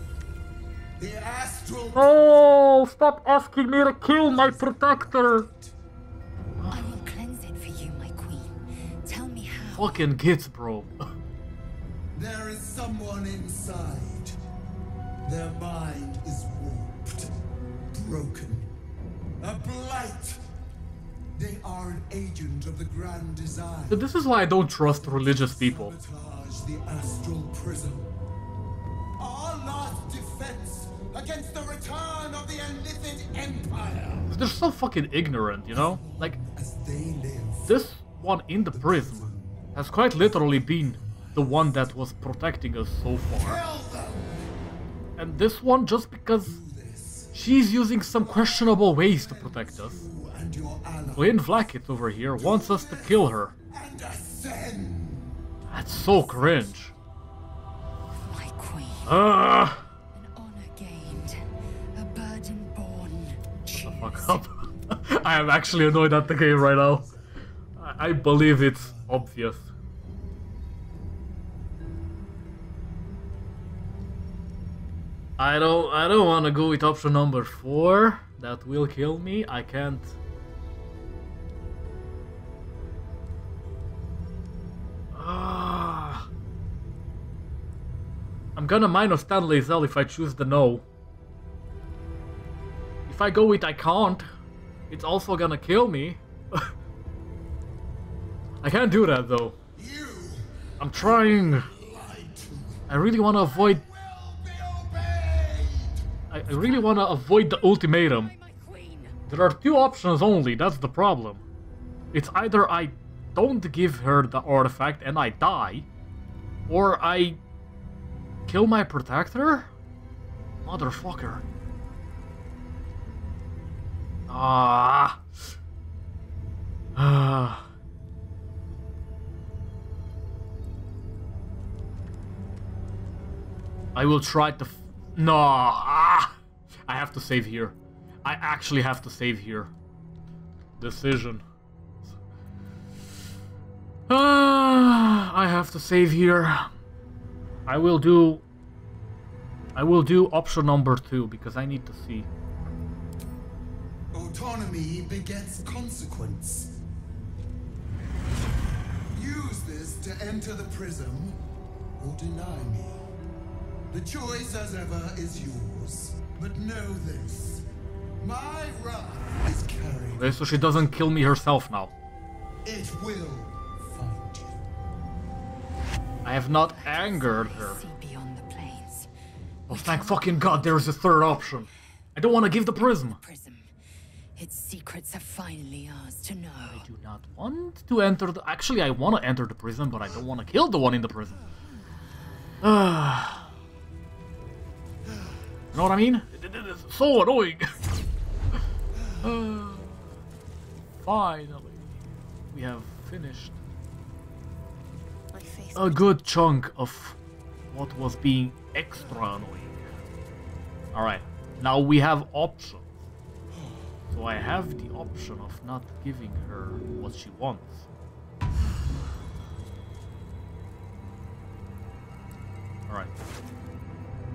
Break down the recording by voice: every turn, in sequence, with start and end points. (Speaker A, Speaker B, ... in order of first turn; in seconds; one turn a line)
Speaker A: 1.0-2.1
Speaker B: 1.9-5.5
Speaker A: 4.0-5.7
Speaker B: 6.6-7.1
Speaker C: 6.7-10.0
Speaker B: 9.7-11.1
Speaker A: 12.1-14.3
Speaker A: 15.2-17.3
Speaker A: 17.9-18.7
Speaker A: 19.4-20.4
Speaker A: 21.4-24.0
Speaker B: 23.9-25.9
Speaker A: 24.9-28.1
Speaker A: 29.2-34.4
Speaker B: 34.3-36.4
Speaker A: 35.7-37.8
Speaker B: 37.7-43.6
Speaker A: 38.7-42.0
Speaker A: 43.3-44.5
Speaker B: 45.2-46.6
Speaker A: 46.4-51.7
Speaker B: 47.3-50.1
Speaker B: 51.1-53.5
Speaker A: 52.3-55.4
Speaker B: 55.7-56.9
Speaker A: 56.1-56.6
Speaker C: 58.2-59.1
Speaker B: 59.0-59.9
Speaker C: 60.1-61.4
Speaker C: 61.9-64.5
Speaker B: 63.7-67.1
Speaker A: 65.2-67.3
Speaker B: 67.8-69.7
Speaker A: 68.0-69.2
Speaker B: 75.4-80.1
Speaker B: 85.1-86.3
Speaker B: 88.5-90.8
Speaker B: 93.1-94.3
Speaker B: 94.9-96.7
Speaker B: 98.6-99.5
Speaker A: 99.8-106.1
Speaker B: 100.8-101.7
Speaker B: 102.9-103.8
Speaker B: 106.3-108.3
Speaker A: 106.6-106.8
Speaker C: 107.8-109.2
Speaker B: 109.3-111.4
Speaker B: 112.1-115.9
Speaker B: 116.7-117.4
Speaker B: 118.5-119.7
Speaker B: 120.6-121.4
Speaker B: 124.3-125.2
Speaker B: 127.0-127.7
Speaker B: 133.9-136.3
Speaker B: 136.9-139.7
Speaker B: 140.8-141.4
Speaker B: 144.1-146.7
Speaker B: 147.7-148.4
Speaker B: 149.7-152.3
Speaker A: 154.1-156.7
Speaker A: 159.1-161.4
Speaker A: 162.0-163.0
Speaker A: 163.9-167.6
Speaker A: 168.2-171.1
Speaker B: 170.1-171.9
Speaker A: 172.6-174.6
Speaker B: 176.2-177.8
Speaker C: 176.4-179.1
Speaker C: 179.7-181.6
Speaker B: 179.7-183.2
Speaker C: 182.8-183.7
Speaker C: 184.3-186.8
Speaker B: 186.7-191.4
Speaker B: 192.6-193.5
Speaker B: 195.7-197.7
Speaker B: 199.2-200.0
Speaker B: 201.0-201.9
Speaker B: 202.5-203.6
Speaker B: 205.7-207.2
Speaker B: 207.7-209.8
Speaker B: 210.9-212.9
Speaker B: 214.1-217.9
Speaker B: 222.9-223.1